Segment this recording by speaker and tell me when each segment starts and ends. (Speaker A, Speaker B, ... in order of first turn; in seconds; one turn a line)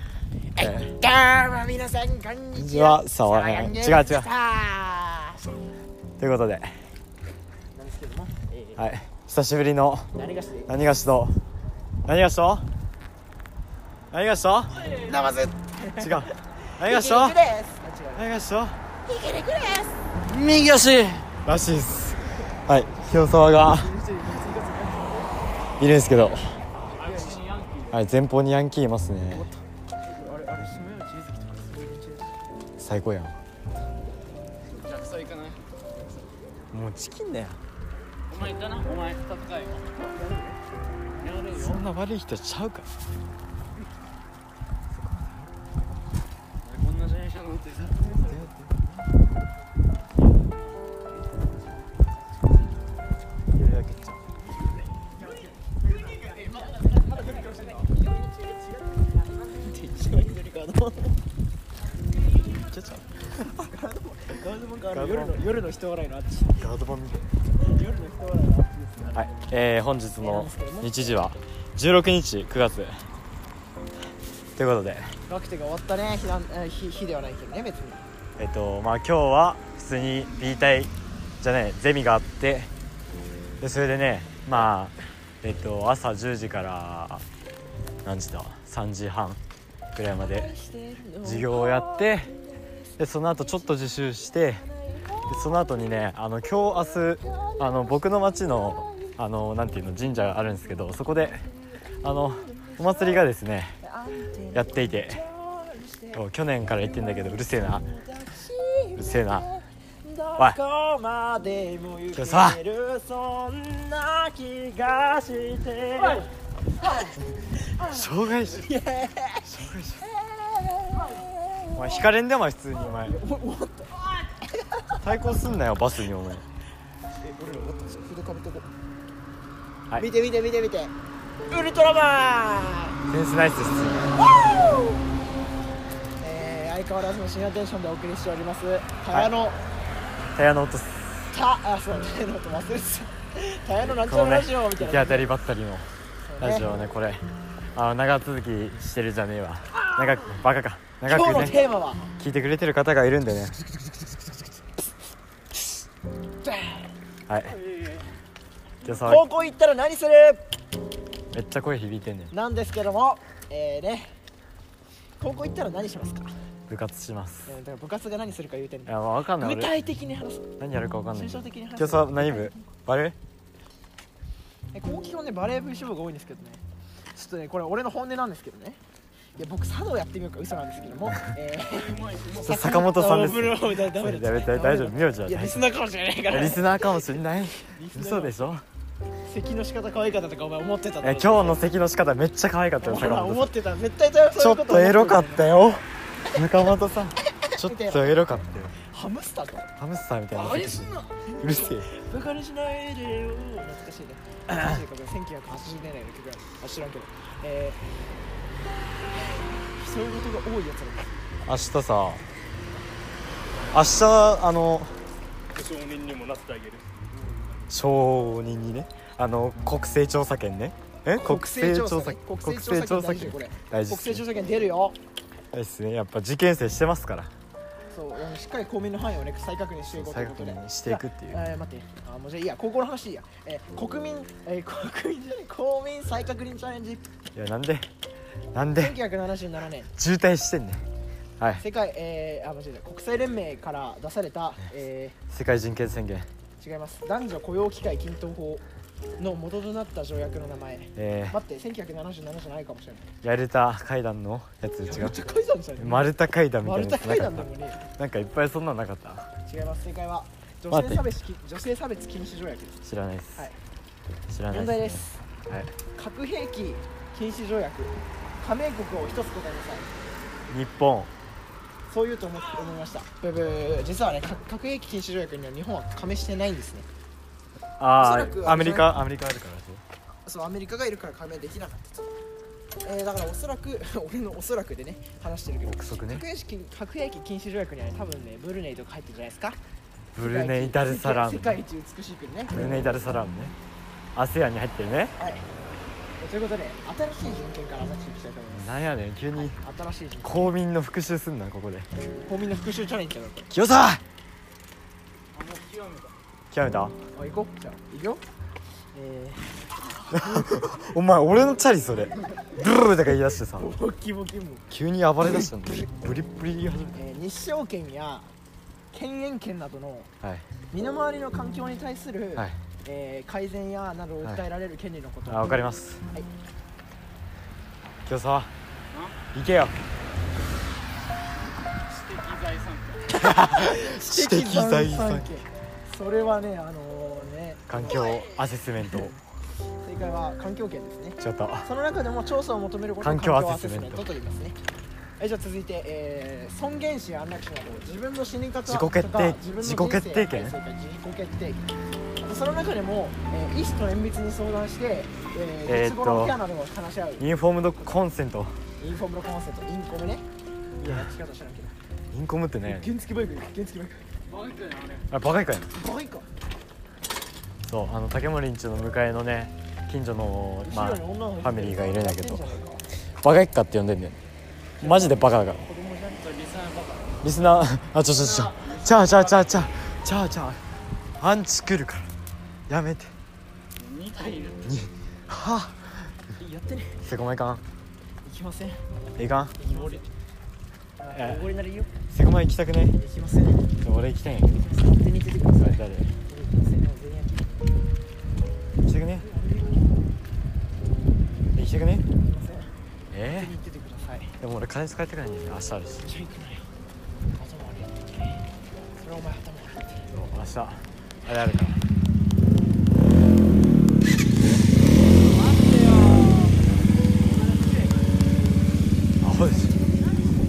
Speaker A: 0.6-5.6
Speaker B: 0.6-0.9
Speaker B: 2.5-4.3
Speaker B: 6.2-6.7
Speaker A: 7.7-8.8
Speaker B: 8.8-10.1
Speaker A: 10.1-10.7
Speaker B: 10.7-11.4
Speaker B: 12.1-12.7
Speaker B: 14.1-14.8
Speaker A: 14.8-18.3
Speaker C: 14.9-15.2
Speaker B: 16.0-17.4
Speaker B: 18.1-18.8
Speaker A: 19.1-20.1
Speaker C: 20.2-21.3
Speaker B: 21.3-23.9
Speaker A: 22.7-25.4
Speaker B: 25.8-26.6
Speaker C: 26.9-28.0
Speaker A: 27.0-27.4
Speaker B: 27.9-29.5
Speaker A: 29.3-32.4
Speaker B: 32.8-33.4
Speaker C: 34.7-35.6
Speaker B: 36.7-37.6
Speaker C: 38.3-39.9
Speaker A: 39.9-40.6
Speaker C: 41.2-41.8
Speaker B: 41.5-42.9
Speaker B: 44.9-45.5
Speaker C: 46.6-48.0
Speaker B: 48.0-48.9
Speaker A: 48.0-48.3
Speaker B: 53.5-54.2
Speaker A: 55.0-61.2
Speaker B: 62.5-63.5
Speaker A: 63.2-66.7
Speaker B: 64.9-65.4
Speaker B: 66.6-67.2
Speaker A: 67.6-69.3
Speaker B: 69.1-73.0
Speaker A: 70.2-71.0
Speaker B: 74.5-75.1
Speaker A: 75.3-78.0
Speaker B: 78.4-82.7
Speaker B: 83.6-87.2
Speaker B: 88.0-89.4
Speaker B: 89.9-90.5
Speaker A: 90.2-95.4
Speaker B: 91.2-92.3
Speaker B: 93.0-94.6
Speaker B: 95.3-101.5
Speaker A: 96.7-99.2
Speaker A: 101.3-103.3
Speaker B: 102.0-103.8
Speaker A: 103.8-122.1
Speaker B: 104.5-105.2
Speaker B: 106.1-107.9
Speaker B: 109.0-109.5
Speaker B: 112.1-112.6
Speaker B: 117.8-118.7
Speaker B: 119.4-120.0
Speaker B: 121.7-123.2
Speaker A: 122.8-125.2
Speaker B: 125.0-126.4
Speaker A: 127.2-128.7
Speaker A: 129.9-130.9
Speaker A: 131.5-133.0
Speaker B: 133.1-134.1
Speaker A: 134.1-135.1
Speaker A: 136.2-139.6
Speaker B: 140.3-141.3
Speaker A: 141.3-145.3
Speaker B: 143.8-145.9
Speaker A: 146.2-146.8
Speaker B: 146.4-151.6
Speaker A: 149.7-150.4
Speaker A: 151.1-152.1
Speaker B: 152.2-153.6
Speaker A: 156.4-156.9
Speaker B: 157.3-157.6
Speaker C: 157.5-158.1
Speaker B: 158.8-159.3
Speaker A: 159.0-160.4
Speaker B: 161.3-162.3
Speaker A: 162.3-164.1
Speaker A: 165.2-166.3
Speaker B: 166.7-167.5
Speaker A: 167.5-170.5
Speaker B: 168.9-169.7
Speaker B: 170.6-173.2
Speaker A: 171.1-172.6
Speaker A: 174.7-176.6
Speaker A: 177.1-178.8
Speaker A: 179.3-188.5
Speaker C: 181.6-182.7
Speaker B: 182.4-185.7
Speaker B: 186.3-188.6
Speaker A: 189.2-191.6
Speaker B: 191.0-193.5
Speaker A: 192.8-195.5
Speaker B: 194.3-198.7
Speaker A: 197.2-198.1
Speaker A: 198.8-199.7
Speaker B: 199.8-201.9
Speaker A: 200.3-207.8
Speaker A: 209.7-211.2
Speaker B: 211.4-212.2
Speaker B: 213.7-214.9
Speaker C: 215.5-217.7
Speaker B: 217.7-224.2
Speaker A: 221.1-225.0
Speaker B: 225.5-227.3
Speaker A: 227.9-237.1
Speaker B: 229.9-231.4
Speaker B: 237.3-237.9
Speaker B: 238.5-239.0
Speaker A: 238.7-239.9
Speaker B: 239.9-240.8
Speaker A: 241.6-245.2
Speaker B: 245.3-246.3
Speaker A: 246.6-248.6
Speaker A: 249.2-253.1
Speaker B: 250.9-251.4
Speaker B: 253.2-255.2
Speaker A: 254.8-257.8
Speaker B: 255.8-259.3
Speaker A: 259.4-262.8
Speaker B: 260.7-261.1
Speaker B: 262.8-263.4
Speaker B: 264.3-265.7
Speaker A: 264.5-265.2
Speaker A: 265.9-270.0
Speaker B: 270.5-271.1
Speaker A: 271.9-276.9
Speaker B: 277.8-279.8
Speaker A: 278.0-278.9
Speaker A: 280.2-282.1
Speaker A: 282.8-289.6
Speaker B: 285.6-286.2
Speaker B: 290.1-291.6
Speaker A: 290.2-293.1
Speaker B: 292.5-293.5
Speaker B: 294.1-295.1
Speaker A: 295.2-295.4
Speaker A: 296.2-298.7
Speaker B: 298.5-299.6
Speaker A: 299.4-300.5
Speaker B: 300.2-301.9
Speaker A: 302.1-303.5
Speaker B: 303.5-304.0
Speaker C: 305.3-306.1
Speaker B: 306.5-307.0
Speaker A: 307.1-308.2
Speaker A: 308.9-310.8
Speaker B: 310.1-313.7
Speaker A: 313.5-314.7
Speaker B: 314.7-317.0
Speaker A: 316.9-318.3
Speaker A: 318.9-320.1
Speaker A: 320.7-325.6
Speaker B: 325.3-326.0
Speaker B: 328.0-328.5
Speaker C: 328.9-329.2
Speaker B: 329.3-329.7
Speaker C: 331.7-333.4
Speaker B: 333.1-335.3
Speaker A: 333.3-338.4
Speaker B: 337.7-339.2
Speaker A: 339.8-344.6
Speaker B: 341.2-341.7
Speaker B: 343.0-344.1
Speaker A: 345.2-357.3
Speaker B: 348.7-350.6
Speaker B: 355.6-356.4
Speaker B: 357.2-358.5
Speaker A: 358.8-360.2
Speaker A: 360.8-361.7
Speaker B: 362.1-362.9
Speaker A: 362.6-364.1
Speaker C: 364.3-365.1
Speaker B: 365.1-365.7
Speaker A: 365.7-366.3
Speaker B: 367.6-372.6
Speaker A: 370.6-372.9
Speaker B: 373.2-374.2
Speaker A: 374.8-376.3
Speaker B: 374.8-375.6
Speaker C: 376.2-377.2
Speaker B: 377.2-380.6
Speaker C: 378.1-379.9
Speaker B: 381.2-382.1
Speaker B: 382.7-383.1
Speaker C: 383.8-384.8
Speaker B: 384.6-386.1
Speaker A: 386.4-387.0
Speaker B: 387.0-387.6
Speaker A: 388.2-388.8
Speaker B: 389.2-389.6
Speaker C: 389.6-390.1
Speaker A: 389.6-390.1
Speaker A: 391.0-391.9
Speaker B: 391.1-391.4
Speaker B: 392.1-392.9
Speaker A: 393.0-393.7
Speaker B: 393.8-394.6
Speaker A: 394.5-397.6
Speaker B: 395.6-396.1
Speaker B: 398.8-399.3
Speaker A: 399.2-400.0
Speaker B: 401.5-402.1
Speaker A: 402.1-402.7
Speaker B: 403.1-403.5
Speaker A: 403.3-404.4
Speaker B: 404.4-406.1
Speaker A: 406.0-406.7
Speaker A: 407.3-408.4
Speaker A: 409.0-410.1
Speaker B: 410.1-411.8
Speaker C: 414.9-416.6
Speaker C: 417.3-418.1
Speaker B: 419.2-419.8